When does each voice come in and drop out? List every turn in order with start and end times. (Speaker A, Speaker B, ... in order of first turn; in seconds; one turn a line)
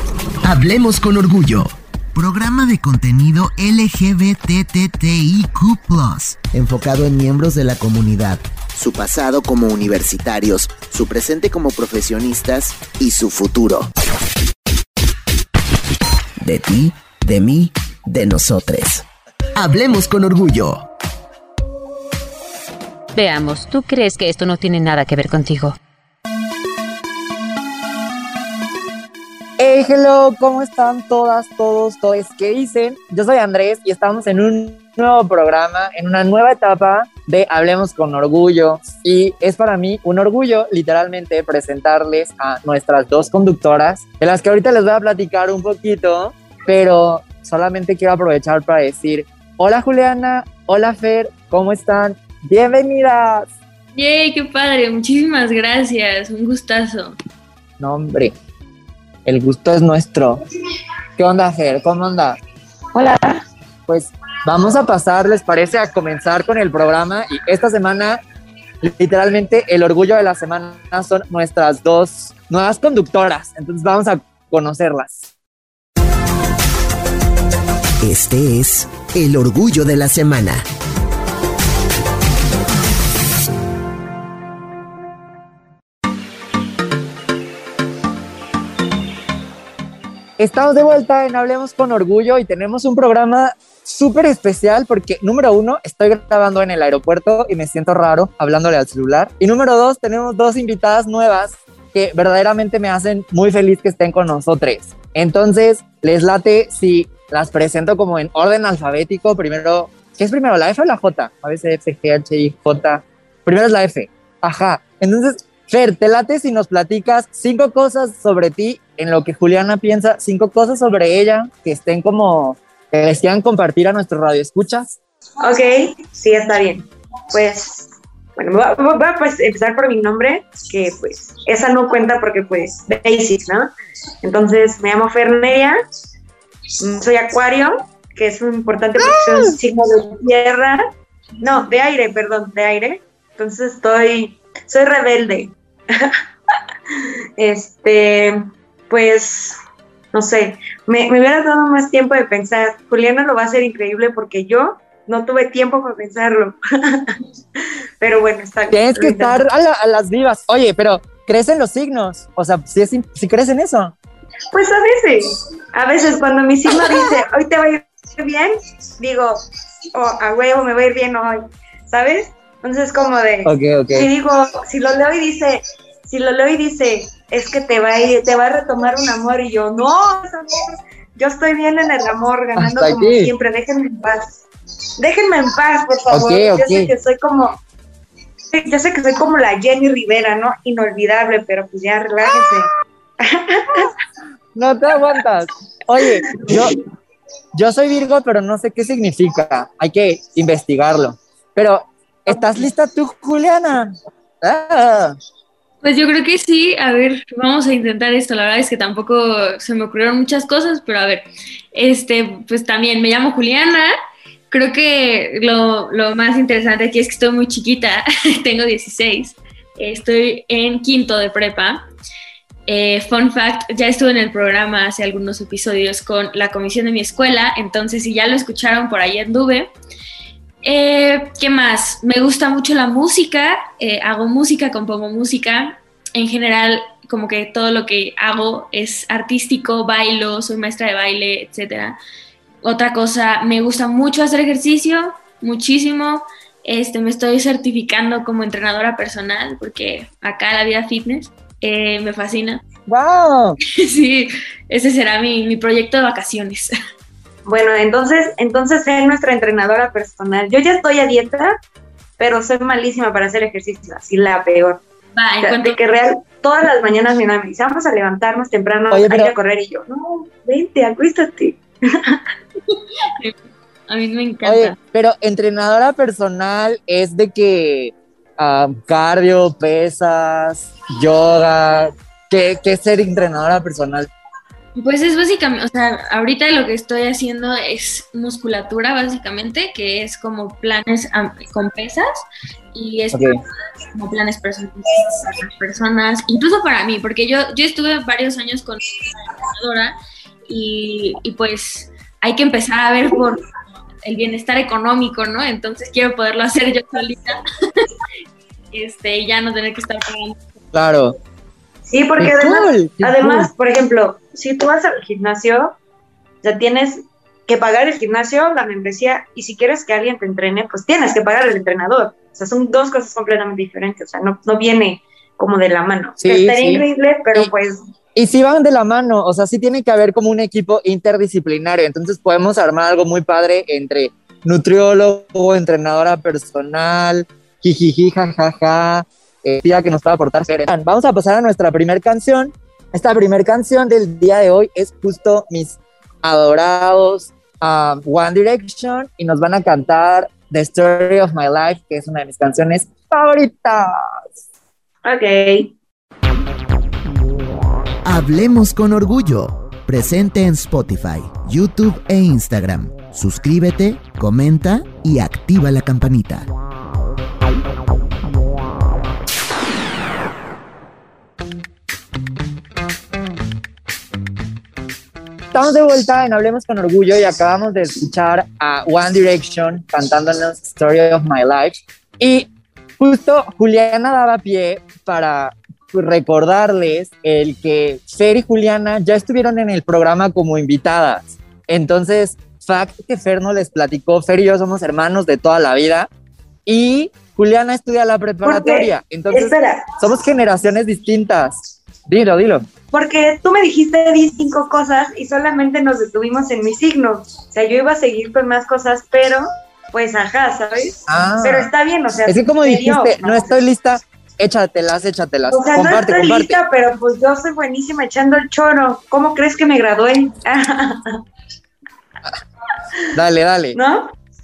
Speaker A: 0.4-13.9
Speaker A: 16.4-19.0
Speaker A: 19.6-20.8
Speaker B: 23.1-25.8
Speaker C: 29.6-53.5
Speaker D: 53.9-57.1
Speaker C: 57.8-58.3
Speaker C: 59.2-60.4
Speaker C: 61.2-62.4
Speaker E: 62.9-63.4
Speaker C: 63.9-68.2
Speaker C: 68.8-75.2
Speaker A: 78.0-80.6
Speaker C: 90.4-125.0
Speaker E: 125.4-133.7
Speaker E: 134.2-135.8
Speaker E: 136.8-140.8
Speaker C: 139.0-139.6
Speaker E: 141.4-146.2
Speaker E: 146.9-149.6
Speaker E: 150.1-159.4
Speaker C: 158.7-163.9
Speaker E: 164.5-169.4
Speaker E: 169.9-184.4
Speaker C: 173.4-174.1
Speaker C: 182.6-183.3
Speaker E: 184.9-187.6
Speaker C: 186.1-186.9
Speaker E: 188.5-193.9
Speaker C: 194.5-196.8
Speaker E: 196.3-196.7
Speaker C: 197.5-205.2
Speaker D: 205.8-213.9
Speaker D: 214.5-221.8
Speaker D: 222.7-229.7
Speaker D: 230.6-242.0
Speaker D: 242.6-252.6
Speaker C: 252.9-253.6
Speaker D: 253.7-256.7
Speaker E: 257.4-261.6
Speaker E: 262.2-264.8
Speaker D: 265.1-265.8
Speaker E: 265.4-272.2
Speaker C: 268.9-269.3
Speaker D: 272.7-273.4
Speaker D: 273.9-274.8
Speaker C: 274.4-284.1
Speaker D: 284.8-292.2
Speaker D: 292.7-293.3
Speaker C: 293.1-293.4
Speaker D: 293.9-299.9
Speaker D: 300.5-303.4
Speaker D: 304.0-307.9
Speaker D: 308.7-310.4
Speaker C: 310.7-311.1
Speaker E: 311.8-315.8
Speaker C: 312.2-313.5
Speaker E: 316.4-327.8
Speaker C: 326.2-327.5
Speaker C: 328.1-354.2
Speaker E: 355.0-355.7
Speaker A: 358.0-366.5
Speaker C: 375.5-396.1
Speaker C: 396.6-402.7
Speaker E: 398.4-399.9
Speaker E: 402.9-413.6
Speaker C: 411.1-411.7
Speaker C: 412.2-416.6
Speaker E: 415.5-421.2
Speaker C: 423.1-423.8
Speaker E: 423.7-424.1